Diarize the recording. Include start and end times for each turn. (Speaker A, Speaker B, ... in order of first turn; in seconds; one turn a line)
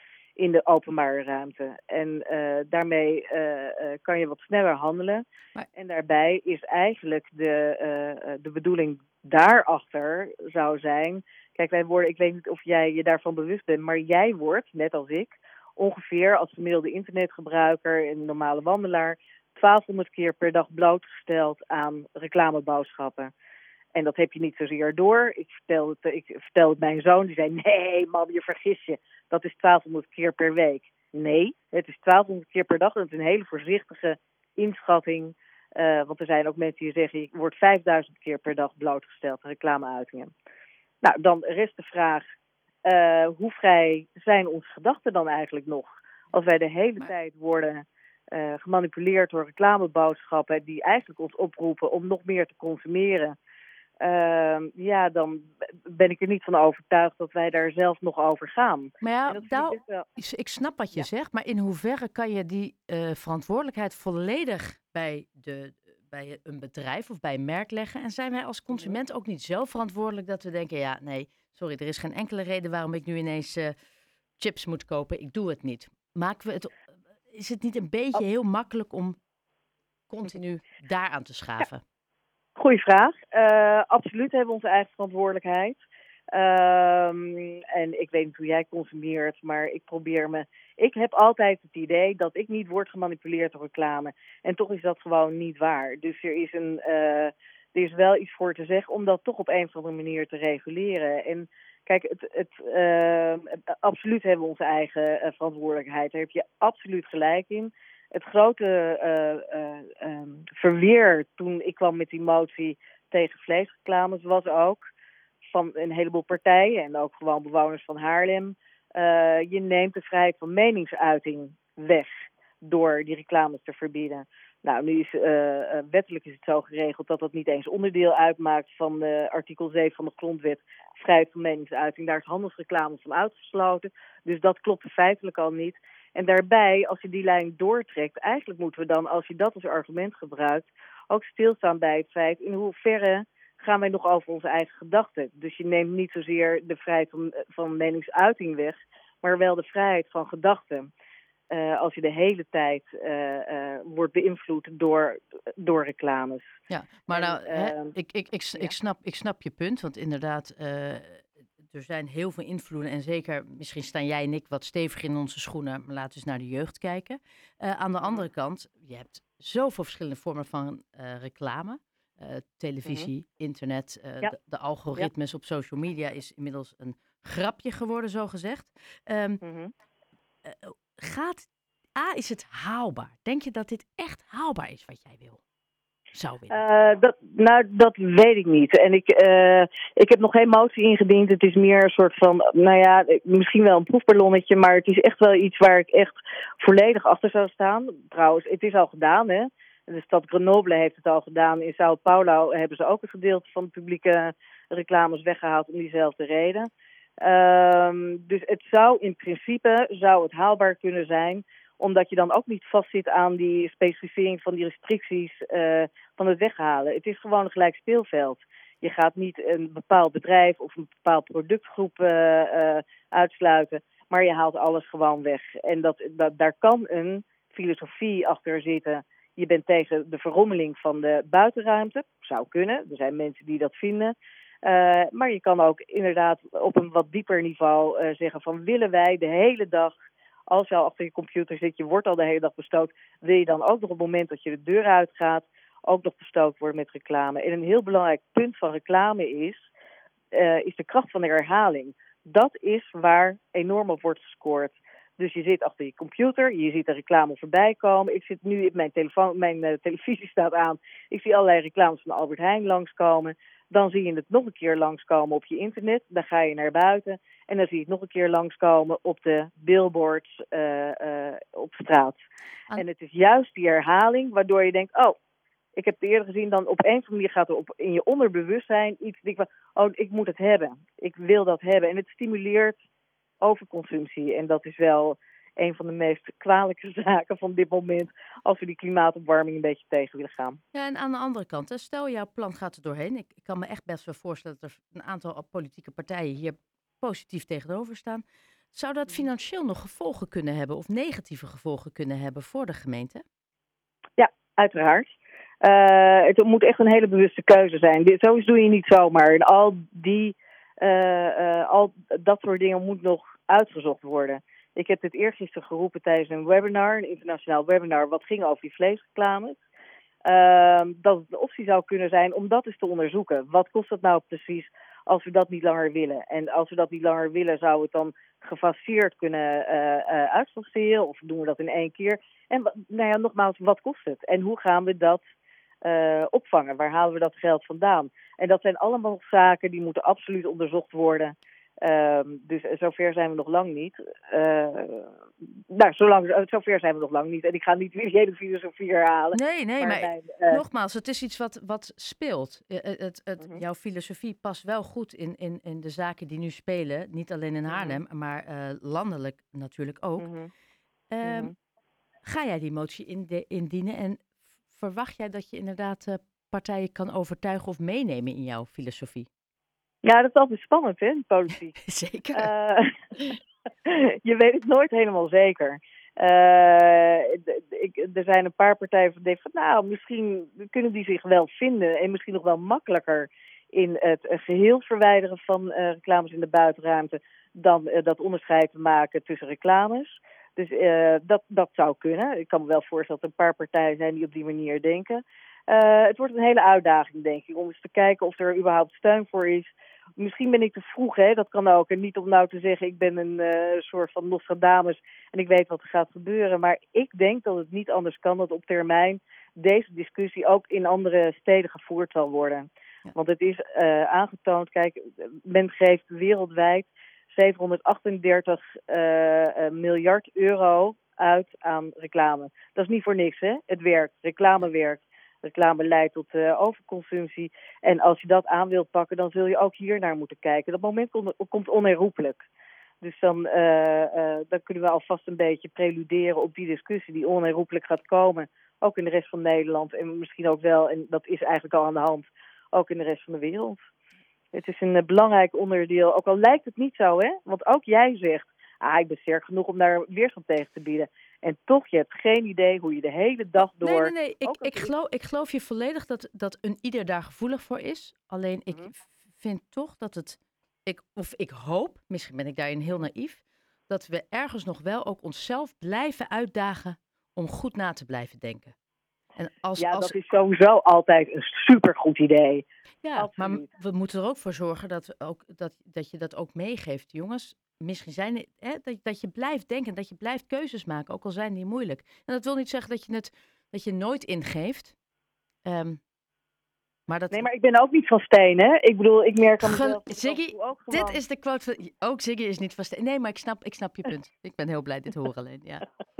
Speaker A: 0.4-5.2
Speaker A: 5.7-23.3
Speaker A: 23.9-40.3
Speaker A: 41.0-42.2
Speaker A: 42.8-53.3
Speaker A: 54.0-60.0
Speaker B: 59.0-73.7
Speaker A: 68.7-69.0
Speaker B: 74.4-76.7
Speaker B: 77.3-79.2
Speaker B: 80.1-81.8
Speaker A: 82.6-114.8
Speaker A: 115.5-150.9
Speaker A: 151.5-156.5
Speaker B: 156.7-179.4
Speaker A: 157.1-157.9
Speaker A: 172.8-173.1
Speaker A: 179.4-179.7
Speaker B: 180.4-185.4
Speaker B: 186.1-186.6
Speaker A: 186.5-206.7
Speaker A: 207.2-239.9
Speaker A: 240.5-249.7
Speaker A: 250.3-272.2
Speaker A: 272.8-275.1
Speaker A: 275.8-282.8
Speaker A: 283.4-290.6
Speaker B: 290.7-303.2
Speaker A: 304.2-319.6
Speaker A: 320.2-335.2
Speaker A: 335.8-350.6
Speaker B: 349.3-360.3
Speaker A: 357.7-358.0
Speaker A: 360.2-360.5
Speaker B: 361.1-361.5
Speaker A: 361.2-361.5
Speaker B: 362.2-369.3
Speaker A: 370.0-371.8
Speaker B: 371.8-372.5
Speaker A: 372.3-372.9
Speaker A: 373.8-432.4
Speaker A: 433.0-443.8
Speaker A: 444.5-454.9
Speaker B: 453.6-468.7
Speaker B: 469.4-470.1
Speaker A: 469.8-472.6
Speaker B: 473.0-484.9
Speaker A: 473.1-473.7
Speaker B: 485.6-486.0
Speaker B: 487.1-487.5
Speaker A: 487.3-491.2
Speaker B: 489.6-495.9